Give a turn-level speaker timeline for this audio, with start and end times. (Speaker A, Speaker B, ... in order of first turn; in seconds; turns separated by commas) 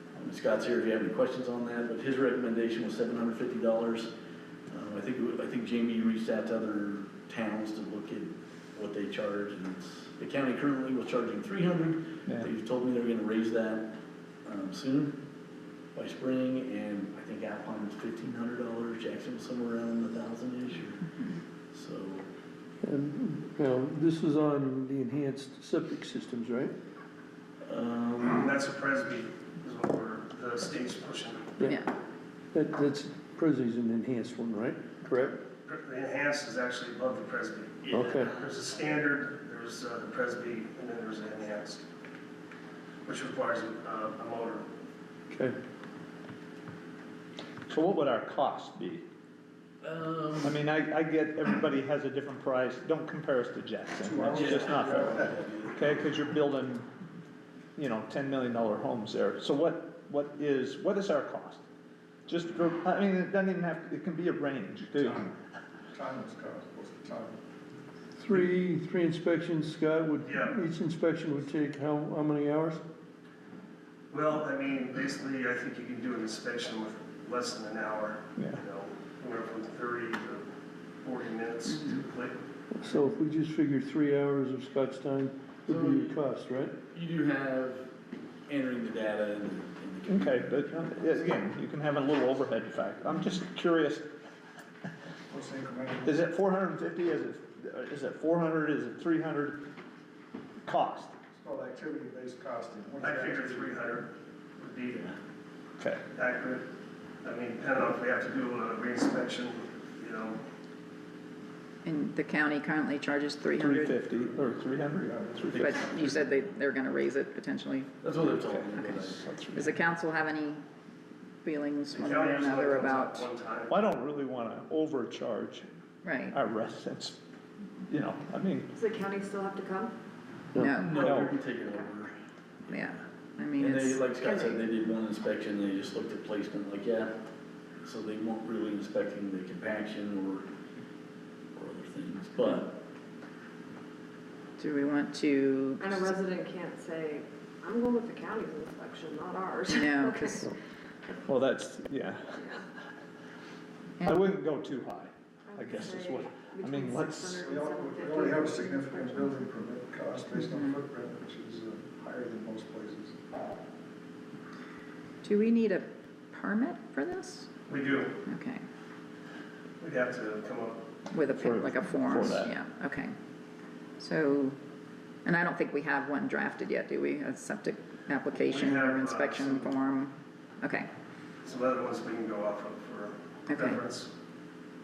Speaker A: 0.2-4.1, Speaker A: 4.7-13.9, Speaker A: 14.4-15.2, Speaker A: 15.9-21.1, Speaker A: 21.7-22.2, Speaker B: 22.8-26.7, Speaker A: 27.6-28.4, Speaker C: 28.4-31.5, Speaker D: 31.6-31.9, Speaker B: 32.5-35.4, Speaker C: 35.6-41.8, Speaker A: 37.9-38.3, Speaker B: 37.9-38.4, Speaker C: 43.0-44.7, Speaker B: 45.3-45.6, Speaker E: 47.7-49.0, Speaker A: 49.8-50.5, Speaker E: 50.4-56.9, Speaker F: 54.0-55.3, Speaker A: 54.3-56.0, Speaker E: 57.8-61.6, Speaker E: 62.3-65.3, Speaker F: 65.9-67.3, Speaker B: 68.2-72.8, Speaker C: 70.2-70.5, Speaker C: 74.1-80.4, Speaker C: 81.0-82.4, Speaker D: 81.7-82.0, Speaker B: 82.7-86.7, Speaker A: 85.7-86.1, Speaker A: 86.9-87.9, Speaker A: 88.5-90.5, Speaker E: 90.1-94.1, Speaker F: 95.3-96.2, Speaker E: 96.0-99.6, Speaker E: 100.6-101.1, Speaker F: 101.3-103.8, Speaker C: 103.0-105.1, Speaker C: 106.1-106.6, Speaker C: 107.2-110.4, Speaker D: 111.8-114.0, Speaker E: 113.5-115.8, Speaker A: 115.5-116.5, Speaker D: 115.5-118.2, Speaker A: 118.0-119.2, Speaker E: 118.4-119.8, Speaker D: 119.5-120.6, Speaker D: 121.4-123.3, Speaker C: 121.9-123.7, Speaker E: 123.7-125.7, Speaker D: 126.0-126.4, Speaker E: 126.3-127.2, Speaker E: 127.9-128.7, Speaker G: 128.8-129.9, Speaker D: 130.6-131.1, Speaker A: 130.7-132.2, Speaker E: 130.9-131.3, Speaker D: 132.7-134.0, Speaker A: 133.6-137.1, Speaker A: 137.8-140.5, Speaker A: 141.5-142.7, Speaker D: 144.6-146.2, Speaker G: 145.8-150.3, Speaker D: 149.7-150.5, Speaker E: 151.2-152.7, Speaker E: 154.0-157.4, Speaker G: 155.5-158.8, Speaker F: 157.4-163.2, Speaker D: 160.4-160.8, Speaker D: 165.2-167.5, Speaker C: 167.7-168.2, Speaker D: 168.2-168.6, Speaker C: 169.8-170.8, Speaker D: 171.1-173.1, Speaker E: 171.3-172.5, Speaker D: 174.0-174.6, Speaker D: 175.2-180.9, Speaker C: 178.5-179.8, Speaker C: 181.4-184.1, Speaker D: 183.5-183.8